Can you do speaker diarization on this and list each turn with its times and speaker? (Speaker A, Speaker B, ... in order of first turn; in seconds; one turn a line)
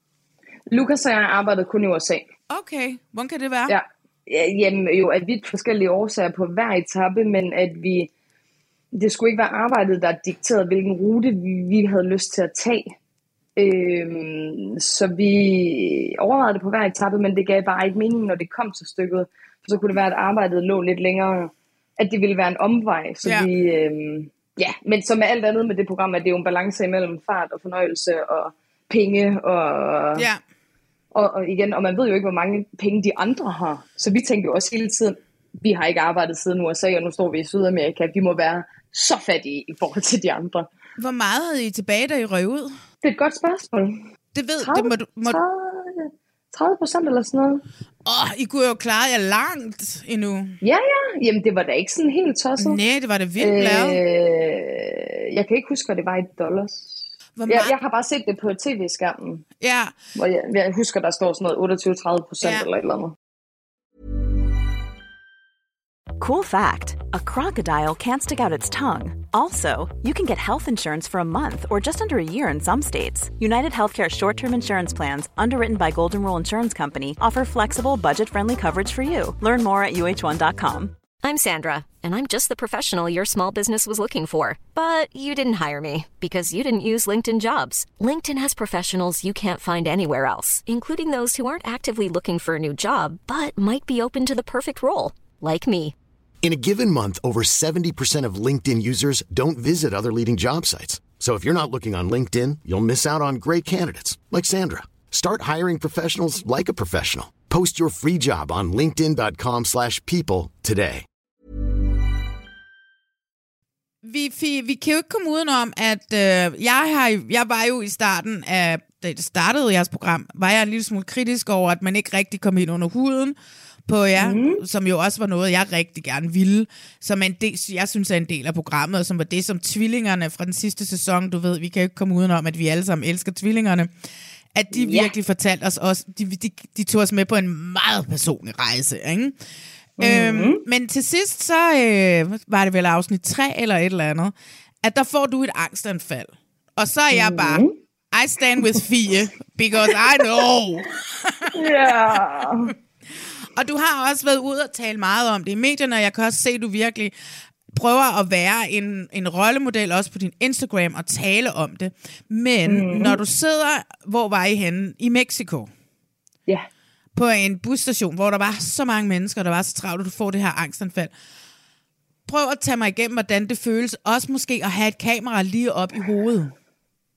Speaker A: 0.7-2.3
Speaker B: 2.5-3.7
Speaker A: 3.7-8.1
Speaker A: 8.9-13.0
Speaker A: 13.6-30.3
Speaker A: 31.1-40.7
Speaker B: 41.0-42.8
Speaker A: 43.0-44.0
Speaker B: 44.3-45.4
Speaker A: 44.6-47.6
Speaker B: 48.0-50.6
Speaker A: 50.6-52.8
Speaker B: 52.6-54.0
Speaker A: 53.4-59.4
Speaker B: 57.4-57.7
Speaker B: 59.6-59.9
Speaker A: 60.1-63.1
Speaker B: 62.4-62.7
Speaker C: 66.2-80.9
Speaker D: 81.2-95.9
Speaker E: 96.4-111.0
Speaker B: 114.0-123.3
Speaker B: 123.9-133.9
Speaker A: 124.2-124.6
Speaker B: 134.5-139.3
Speaker A: 134.7-135.1
Speaker A: 140.0-140.6
Speaker B: 140.0-152.2
Speaker A: 147.1-147.7
Speaker A: 151.5-152.7
Speaker B: 153.6-157.1
Speaker B: 157.7-165.7
Speaker A: 162.7-163.2
Speaker B: 167.1-171.1
Speaker B: 172.3-176.5